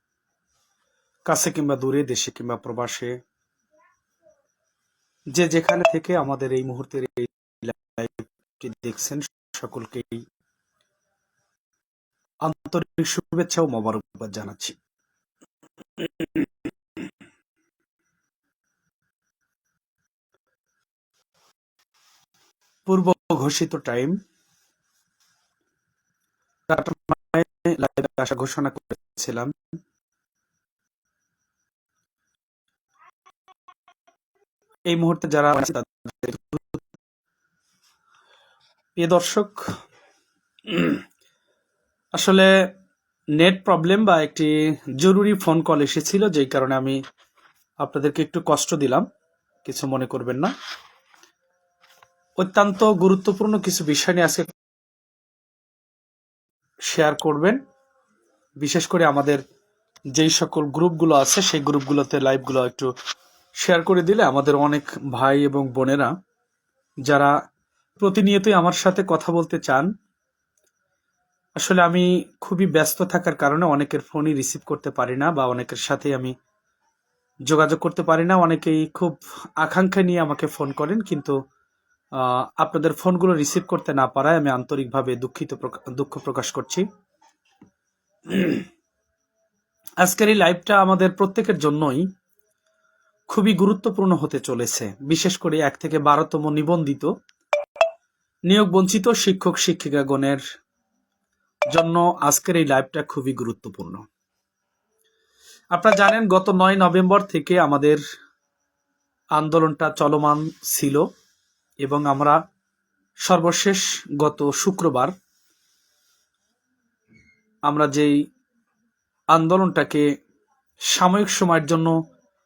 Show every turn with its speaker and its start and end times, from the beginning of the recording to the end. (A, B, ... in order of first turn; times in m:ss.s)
0:01.3-0:03.2 A
0:05.3-0:10.2 A
0:12.4-0:14.8 A
0:16.0-0:16.5 A
0:22.9-0:24.2 A
0:26.7-0:29.5 A
0:34.9-0:36.8 A
0:39.0-0:39.6 A
0:40.7-0:41.0 A
0:42.2-0:42.5 A
0:43.4-0:47.0 A
0:47.8-0:49.0 A
0:49.6-0:50.5 A
0:52.4-0:54.5 A
0:56.9-0:57.6 A
0:58.6-0:59.4 A
1:00.1-1:02.9 A
1:03.6-1:06.1 A
1:07.0-1:07.3 A
1:08.0-1:09.9 A
1:11.6-1:16.3 A
1:17.5-1:21.4 A
1:22.2-1:26.9 A
1:28.3-1:28.6 A
1:30.0-1:32.1 A
1:33.3-1:37.1 A
1:38.5-1:40.4 A
1:41.7-1:44.0 A
1:45.7-1:48.0 A
1:49.4-1:51.1 A
1:51.8-1:52.4 A
1:53.2-1:55.1 A
1:57.7-1:58.1 A
1:59.3-2:00.1 A
2:00.9-2:01.9 A